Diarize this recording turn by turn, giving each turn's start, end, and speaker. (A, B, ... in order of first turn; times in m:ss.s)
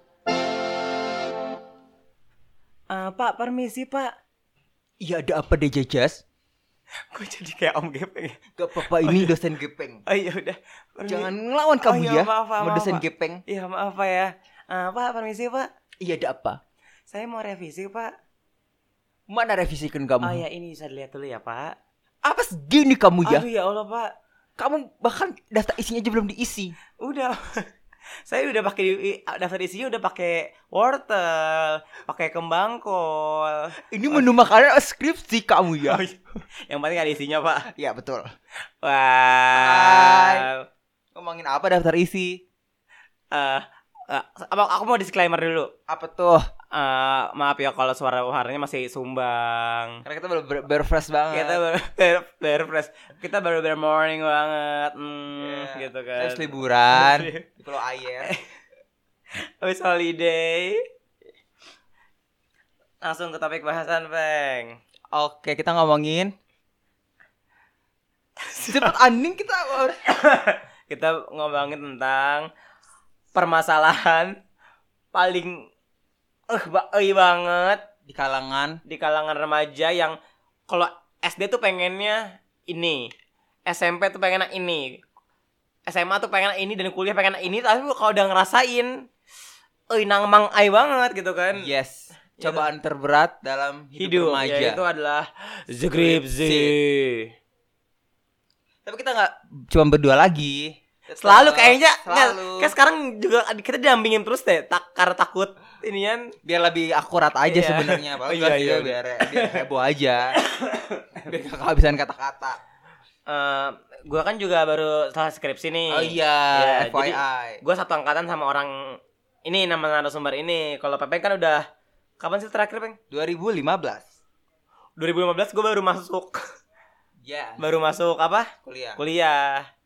0:02.9-0:04.1 A
0:05.0-0:06.2 B
0:07.1-0:09.3 A
0:08.6-0:10.0 B
0:10.1-0:11.3 A
0:11.1-0:13.4 B
0:11.8-0:15.7 A
0:16.0-0:16.6 B
0:17.1-0:18.1 A
0:19.3-0:20.4 B
0:20.2-0:21.7 A
0:22.2-0:23.5 B
0:23.2-0:24.1 A
0:24.6-0:26.7 B
0:27.0-0:27.6 A
0:28.2-0:34.3 A
0:33.8-0:36.0 B
0:35.8-0:37.7 A
0:37.7-0:38.3 B
0:38.8-0:40.6 A
0:39.5-0:40.5 B
0:41.1-0:42.4 B
0:43.3-0:45.7 A
0:45.9-0:46.4 B
0:46.7-0:50.0 A
0:50.0-0:51.6 B
0:51.3-0:57.4 A
0:55.4-0:58.3 B
0:59.3-1:00.8 A
1:03.0-1:04.8 A
1:05.1-1:06.3 B
1:08.4-1:08.9 A
1:08.6-1:10.0 B
1:10.1-1:12.5 A
1:13.3-1:14.3 A
1:15.1-1:15.7 A
1:16.5-1:17.8 A
1:18.1-1:18.8 B
1:18.9-1:20.2 A
1:20.7-1:23.1 A
1:23.6-1:25.0 A
1:25.9-1:29.0 A
1:29.9-1:31.7 A
1:31.5-1:34.8 B
1:32.4-1:32.6 A
1:34.0-1:37.3 A
1:35.9-1:36.7 B
1:38.8-1:42.7 B
1:41.2-1:46.3 A
1:46.4-1:50.4 B
1:47.5-1:49.6 A
1:50.4-1:51.2 A
1:51.2-1:52.6 B
1:53.3-2:01.6 A
1:55.9-1:57.6 B
2:02.2-2:03.0 A
2:03.1-2:04.1 B
2:05.0-2:06.4 A
2:07.2-2:07.6 B
2:07.6-2:09.7 A
2:08.6-2:09.0 B